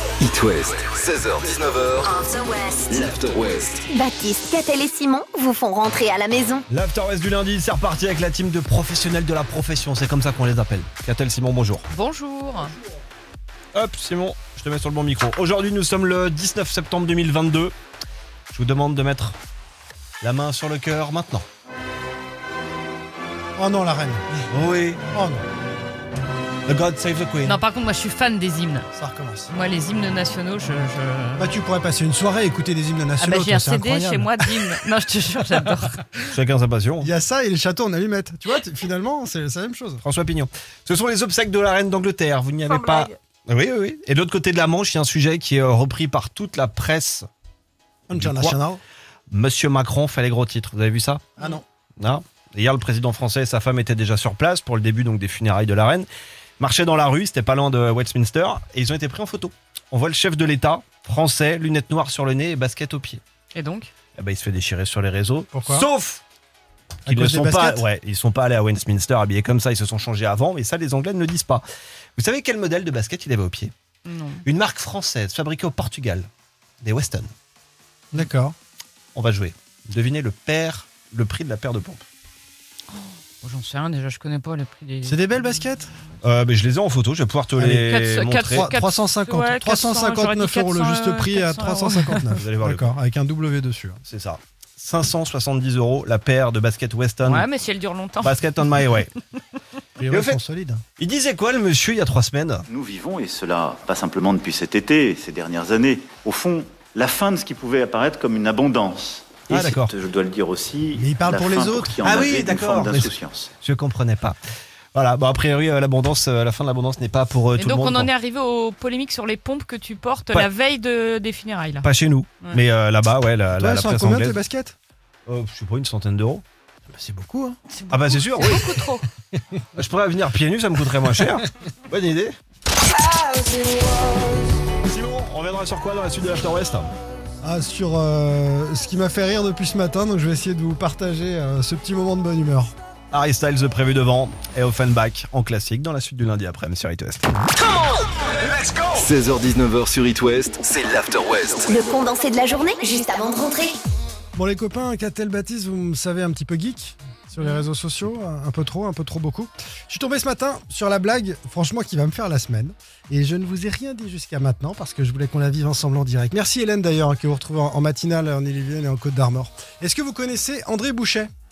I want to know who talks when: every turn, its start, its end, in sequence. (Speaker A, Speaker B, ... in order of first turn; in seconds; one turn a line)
Speaker A: 0.2-2.2
Speaker B: 2.1-2.7
Speaker A: 2.8-3.9
Speaker B: 3.9-6.7
Speaker C: 6.7-11.9
Speaker D: 11.9-12.8
Speaker C: 13.7-17.8
Speaker C: 18.5-19.4
Speaker C: 20.2-21.5
Speaker E: 23.6-24.4
Speaker C: 24.5-25.0
Speaker E: 25.1-25.4
Speaker C: 26.7-27.6
Speaker D: 27.4-28.9
Speaker E: 28.9-29.5
Speaker D: 29.5-31.6
Speaker E: 31.4-34.6
Speaker D: 33.2-36.0
Speaker C: 36.3-37.1
Speaker E: 37.0-40.0
Speaker C: 40.0-47.3
Speaker E: 48.1-48.8
Speaker C: 48.1-48.6
Speaker C: 49.3-51.3
Speaker C: 52.0-56.1
Speaker C: 56.6-63.2
Speaker D: 63.5-63.9
Speaker C: 64.2-66.2
Speaker E: 65.5-65.9
Speaker E: 67.1-67.9
Speaker C: 67.1-71.6
Speaker C: 72.2-73.7
Speaker D: 74.1-74.5
Speaker C: 74.5-76.3
Speaker C: 76.8-77.3
Speaker E: 78.1-78.5
Speaker C: 79.2-82.0
Speaker D: 82.9-86.2
Speaker E: 85.1-85.9
Speaker C: 86.2-88.7
Speaker E: 87.5-87.9
Speaker D: 87.8-92.4
Speaker E: 88.5-94.0
Speaker C: 92.4-92.9
Speaker C: 94.1-97.5
Speaker D: 97.2-98.4
Speaker C: 98.2-99.1
Speaker E: 100.0-100.8
Speaker C: 100.1-100.4
Speaker C: 101.0-102.7
Speaker F: 102.7-113.5
Speaker C: 109.5-109.9
Speaker E: 111.0-112.0
Speaker C: 112.0-114.4
Speaker C: 114.9-118.1
Speaker D: 117.5-121.9
Speaker C: 121.8-124.4
Speaker E: 123.6-124.8
Speaker C: 125.3-126.4
Speaker E: 126.9-127.6
Speaker D: 127.7-129.1
Speaker C: 127.9-128.6
Speaker E: 128.4-128.8
Speaker E: 129.3-129.6
Speaker C: 129.8-132.4
Speaker C: 134.8-136.9
Speaker E: 137.4-142.7
Speaker C: 143.1-147.3
Speaker A: 148.9-151.8
Speaker B: 151.7-153.8
Speaker E: 154.3-171.3